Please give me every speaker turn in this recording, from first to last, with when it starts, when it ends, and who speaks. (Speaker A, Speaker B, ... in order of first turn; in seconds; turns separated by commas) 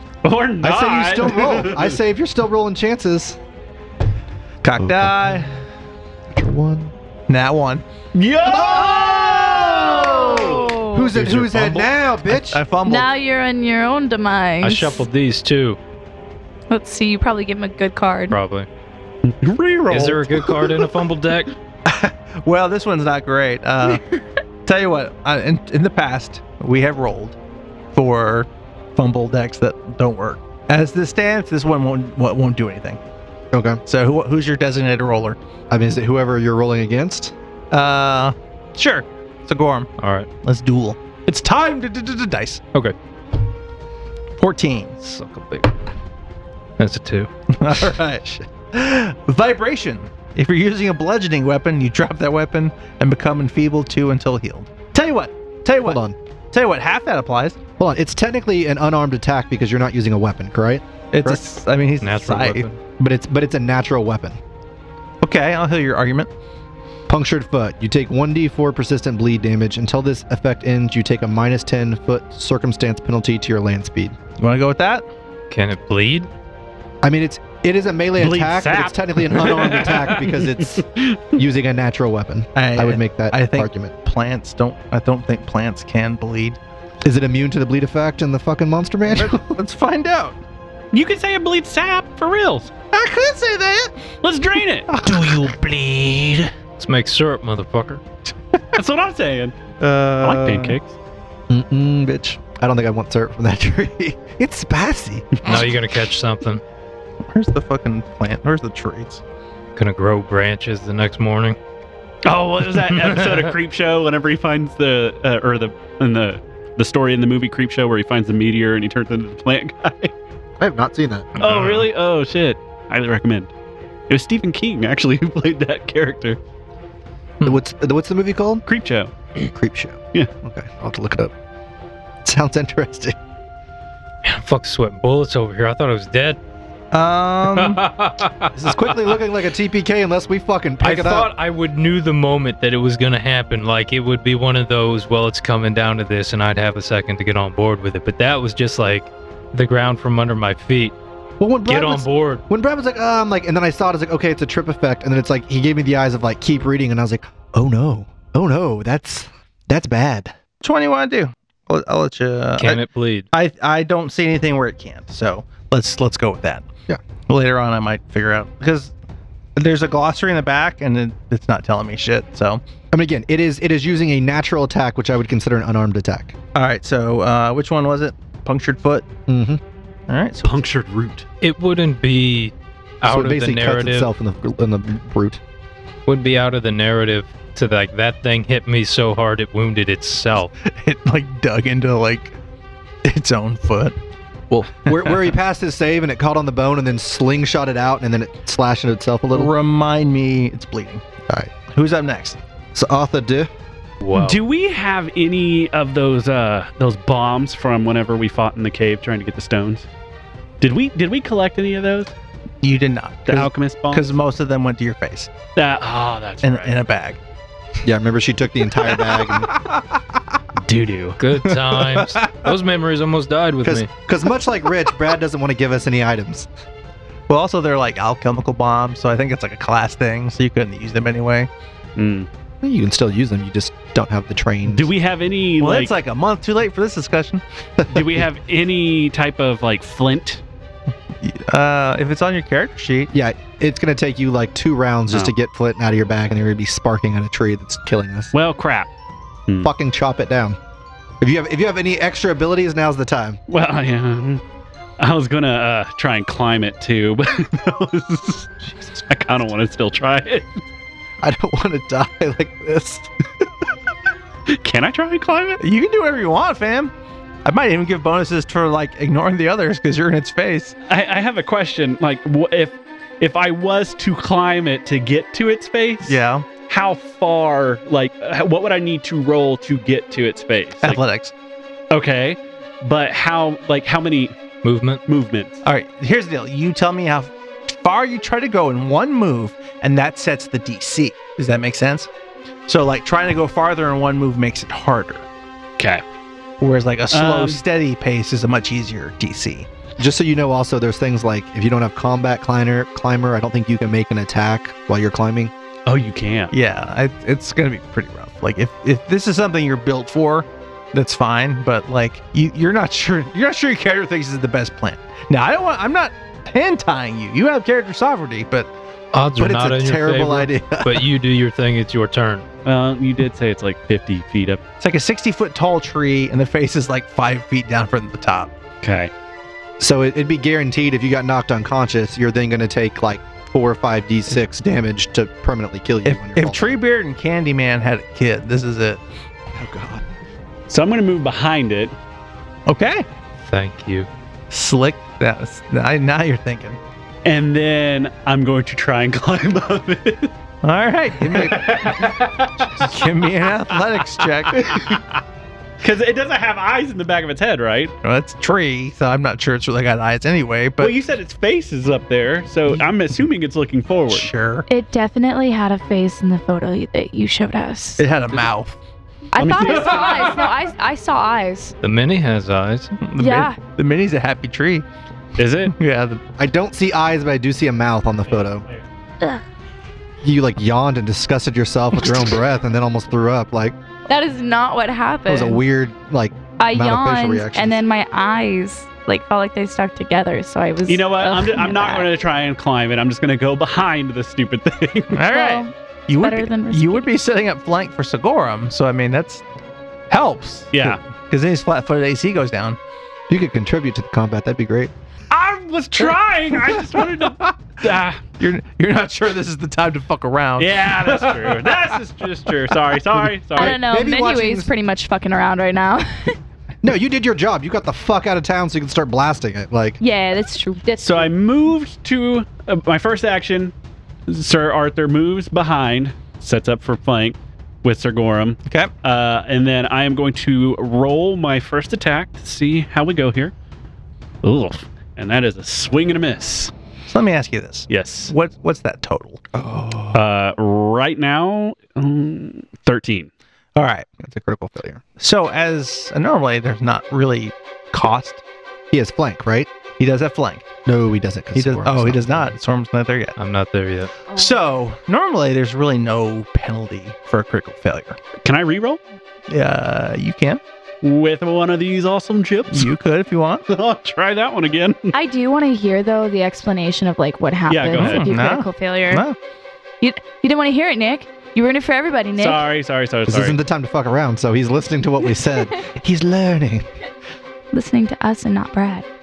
Speaker A: 0.2-1.9, Speaker B: 0.6-3.4, Speaker C: 4.6-5.5, Speaker B: 4.8-5.5, Speaker B: 6.3-6.9, Speaker C: 7.3-7.8, Speaker A: 8.1-10.8, Speaker B: 8.4-12.6, Speaker D: 10.4-11.1, Speaker C: 11.1-13.1, Speaker D: 12.8-15.0, Speaker E: 14.6-15.8, Speaker D: 16.7-18.4, Speaker E: 18.3-18.7, Speaker A: 19.2-20.7, Speaker E: 19.9-21.5, Speaker C: 21.8-24.0, Speaker C: 24.6-27.4, Speaker C: 27.9-33.0, Speaker B: 33.5-33.8, Speaker C: 33.9-35.4, Speaker B: 35.7-37.3, Speaker C: 37.7-39.9, Speaker E: 40.0-40.3, Speaker C: 40.4-42.6, Speaker C: 44.4-45.0, Speaker E: 45.0-45.7, Speaker E: 46.8-47.3, Speaker C: 47.5-56.0, Speaker B: 55.8-56.1, Speaker C: 56.5-57.6, Speaker B: 57.8-61.4, Speaker C: 61.1-62.7, Speaker E: 62.0-62.8, Speaker B: 63.0-64.4, Speaker C: 65.2-66.3, Speaker B: 67.1-74.2, Speaker C: 74.4-75.0, Speaker E: 75.5-76.3, Speaker B: 77.0-83.9, Speaker A: 78.2-81.3, Speaker C: 82.5-86.6, Speaker B: 87.0-89.5, Speaker C: 89.1-90.4, Speaker A: 90.9-92.7, Speaker C: 92.9-93.9, Speaker A: 94.2-94.9, Speaker C: 94.9-96.5, Speaker E: 96.8-98.0, Speaker A: 98.7-99.6, Speaker C: 99.8-100.8, Speaker A: 100.2-100.9, Speaker B: 101.5-105.4, Speaker E: 105.4-106.6, Speaker C: 107.3-109.2, Speaker E: 109.8-111.6, Speaker A: 112.2-120.1, Speaker E: 112.7-113.5, Speaker B: 120.6-121.3, Speaker E: 121.4-121.9, Speaker A: 121.4-123.5, Speaker A: 124.1-126.4, Speaker B: 127.4-128.6, Speaker A: 128.7-129.1, Speaker B: 129.5-131.3, Speaker B: 132.2-133.2, Speaker E: 134.2-136.4, Speaker C: 136.9-137.8, Speaker E: 137.4-139.0, Speaker B: 138.5-141.3, Speaker E: 140.8-150.9, Speaker B: 151.4-160.3, Speaker E: 151.7-152.4, Speaker C: 160.6-166.7, Speaker E: 162.6-163.3, Speaker C: 167.3-168.9, Speaker C: 169.6-172.6, Speaker B: 172.9-176.3, Speaker C: 176.5-179.1, Speaker B: 179.3-179.6, Speaker C: 180.1-180.6, Speaker A: 180.4-181.2, Speaker E: 181.4-184.1, Speaker B: 183.0-185.4, Speaker E: 186.1-190.5, Speaker C: 190.6-192.3, Speaker C: 193.0-193.9, Speaker B: 194.5-199.5, Speaker C: 194.9-195.2, Speaker C: 199.3-201.0, Speaker B: 201.3-201.5, Speaker C: 201.7-202.4, Speaker B: 202.7-203.5, Speaker E: 204.0-204.4, Speaker A: 204.1-209.8, Speaker A: 210.6-212.1, Speaker C: 212.6-215.3, Speaker A: 213.2-214.1, Speaker A: 215.6-216.8, Speaker C: 216.4-217.2, Speaker B: 217.8-219.5, Speaker C: 219.1-219.8, Speaker A: 220.6-221.2, Speaker E: 221.2-223.9, Speaker C: 221.4-222.5, Speaker B: 223.6-226.5, Speaker C: 227.3-231.5, Speaker A: 231.9-232.3, Speaker B: 232.6-234.9, Speaker A: 234.7-235.9, Speaker C: 235.6-237.4, Speaker B: 237.8-238.1, Speaker A: 237.9-240.4, Speaker C: 241.2-243.1, Speaker B: 243.1-248.3, Speaker A: 248.3-248.9, Speaker B: 249.6-250.6, Speaker B: 251.2-253.4, Speaker A: 253.5-254.4, Speaker A: 255.0-260.6, Speaker B: 261.2-263.1, Speaker A: 264.5-265.6, Speaker C: 265.6-266.9, Speaker C: 267.4-270.7, Speaker A: 270.9-281.0, Speaker C: 276.0-276.5, Speaker C: 280.8-281.3, Speaker A: 281.9-284.3, Speaker E: 284.6-285.0, Speaker A: 285.1-285.6, Speaker C: 285.6-292.1, Speaker C: 292.7-295.2, Speaker A: 295.8-296.0, Speaker C: 296.6-299.7, Speaker A: 297.1-297.6, Speaker B: 300.0-305.5, Speaker A: 305.9-306.5, Speaker C: 306.5-318.7, Speaker E: 319.1-322.4, Speaker B: 319.4-321.0, Speaker A: 322.6-324.6, Speaker C: 324.8-328.5, Speaker A: 328.8-329.1, Speaker B: 329.8-336.8, Speaker C: 336.0-339.0, Speaker B: 339.6-340.0, Speaker A: 340.7-341.9, Speaker C: 342.6-343.1, Speaker E: 343.5-344.1, Speaker C: 344.5-346.8, Speaker A: 347.2-350.3, Speaker C: 350.6-351.9, Speaker A: 351.3-353.1, Speaker C: 352.7-354.9, Speaker A: 354.4-355.0, Speaker A: 355.8-357.9, Speaker C: 358.0-361.0, Speaker A: 360.8-364.3, Speaker C: 364.1-364.7, Speaker D: 364.7-368.0, Speaker C: 368.0-368.8, Speaker D: 369.3-371.7, Speaker A: 369.4-370.3, Speaker E: 371.8-372.9, Speaker C: 373.0-374.9, Speaker D: 373.2-373.6, Speaker A: 375.4-375.7, Speaker C: 375.6-376.2, Speaker B: 376.4-378.6, Speaker B: 380.2-383.8, Speaker D: 384.1-385.6, Speaker B: 385.3-387.8, Speaker D: 386.6-392.1, Speaker A: 390.9-395.2, Speaker C: 395.1-399.4, Speaker D: 395.3-397.1, Speaker C: 400.1-402.8, Speaker A: 400.7-401.0, Speaker B: 403.3-404.9, Speaker A: 405.3-408.2, Speaker C: 406.6-411.9, Speaker A: 410.6-413.8, Speaker C: 412.7-413.2, Speaker B: 413.6-414.7, Speaker D: 413.6-416.4, Speaker B: 416.8-420.0, Speaker D: 420.0-421.3, Speaker A: 421.0-423.7, Speaker A: 424.3-433.5, Speaker C: 428.6-428.9, Speaker A: 434.4-436.7, Speaker C: 437.1-440.2, Speaker A: 437.9-438.3, Speaker A: 440.1-443.3, Speaker C: 443.8-444.1, Speaker B: 444.2-445.0, Speaker C: 445.2-448.4, Speaker B: 448.9-449.7, Speaker C: 450.0-450.6, Speaker B: 450.9-452.6, Speaker C: 451.5-453.4, Speaker E: 453.4-454.2, Speaker C: 454.3-458.2, Speaker A: 458.4-459.0, Speaker C: 459.5-460.6, Speaker A: 461.0-462.9, Speaker C: 462.7-463.6, Speaker A: 463.7-465.1, Speaker D: 465.1-469.2, Speaker A: 467.7-468.3, Speaker C: 467.9-469.4, Speaker D: 470.0-472.6, Speaker A: 472.4-473.6, Speaker B: 473.3-476.9, Speaker D: 477.7-479.1